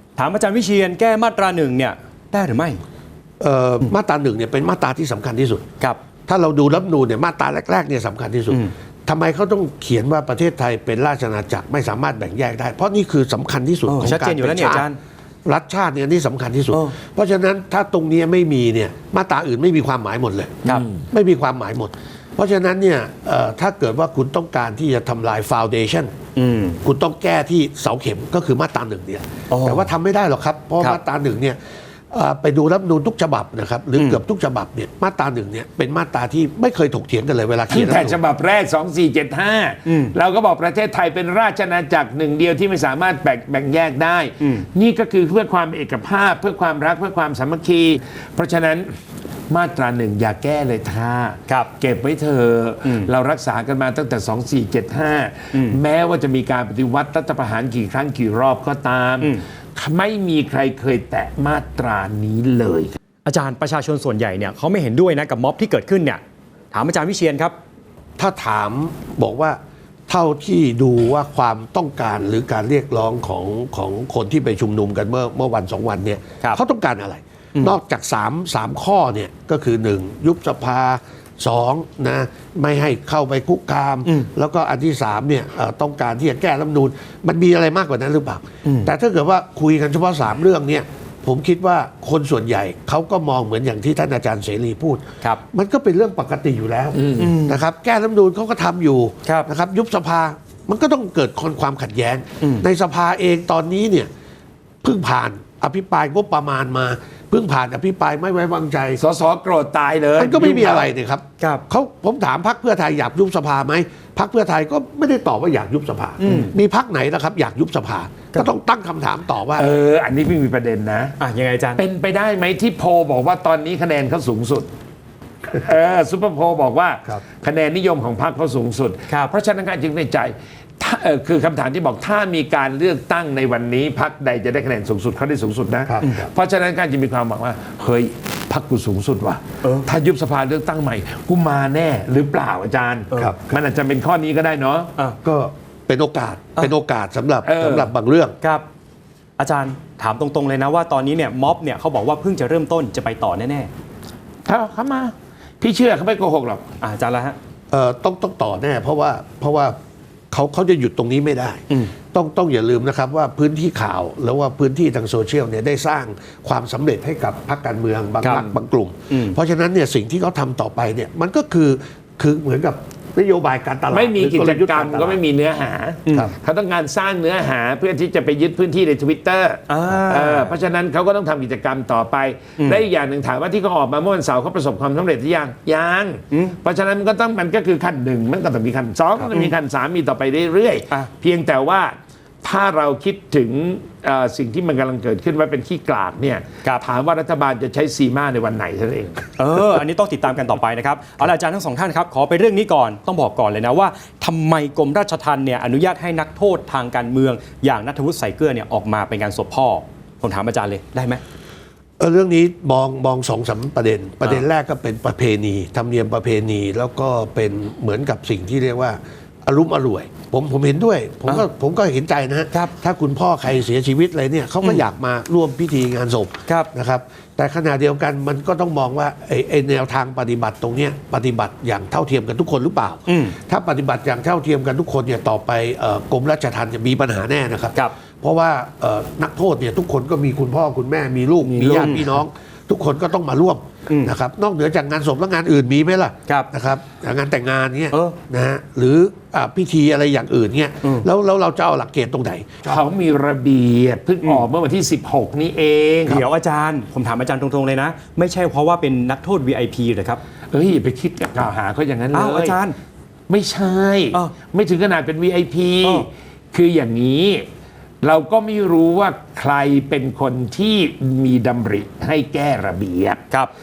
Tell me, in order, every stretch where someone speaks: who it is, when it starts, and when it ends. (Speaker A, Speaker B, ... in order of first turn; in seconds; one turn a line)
Speaker A: 0.2-2.8
Speaker B: 3.4-5.6
Speaker B: 6.3-14.9
Speaker A: 13.9-15.0
Speaker B: 15.4-26.1
Speaker C: 20.7-21.0
Speaker A: 26.4-26.8
Speaker B: 26.8-31.6
Speaker A: 29.5-29.9
Speaker B: 32.1-38.2
Speaker C: 37.7-48.9
Speaker A: 39.9-40.1
Speaker C: 49.5-62.9
Speaker A: 55.5-55.8
Speaker A: 63.2-66.2
Speaker A: 66.7-67.5
Speaker B: 68.2-104.1
Speaker A: 88.6-88.9
Speaker C: 96.9-97.3
Speaker A: 97.2-97.6
Speaker A: 102.4-102.7
Speaker B: 104.8-109.0
Speaker C: 109.0-110.9
Speaker B: 110.2-119.7
Speaker A: 111.4-111.6
Speaker A: 116.2-116.5
Speaker C: 119.5-121.2
Speaker A: 121.2-121.8
Speaker C: 121.8-124.7
Speaker C: 125.5-144.9
Speaker A: 129.1-129.3
Speaker B: 135.9-136.3
Speaker B: 143.2-143.4
Speaker B: 145.2-148.3
Speaker C: 147.4-147.9
Speaker A: 148.4-148.7
Speaker A: 149.4-153.7
Speaker C: 154.4-156.7
Speaker A: 156.8-157.4
Speaker B: 157.7-159.8
Speaker B: 160.3-175.2
Speaker A: 168.2-168.5
Speaker A: 169.1-169.4
Speaker C: 173.9-199.3
Speaker A: 176.1-176.3
Speaker A: 179.7-180.6
Speaker A: 182.6-182.8
Speaker A: 189.2-189.5
Speaker A: 199.4-211.2
Speaker B: 212.0-252.8
Speaker A: 233.1-233.3
Speaker C: 241.4-242.1
Speaker A: 241.8-242.2
Speaker A: 243.9-244.1
Speaker A: 247.9-248.2
Speaker C: 252.6-256.2
Speaker A: 256.1-260.2
Speaker C: 260.5-262.6
Speaker A: 262.1-262.8
Speaker C: 263.3-267.4
Speaker C: 268.0-273.2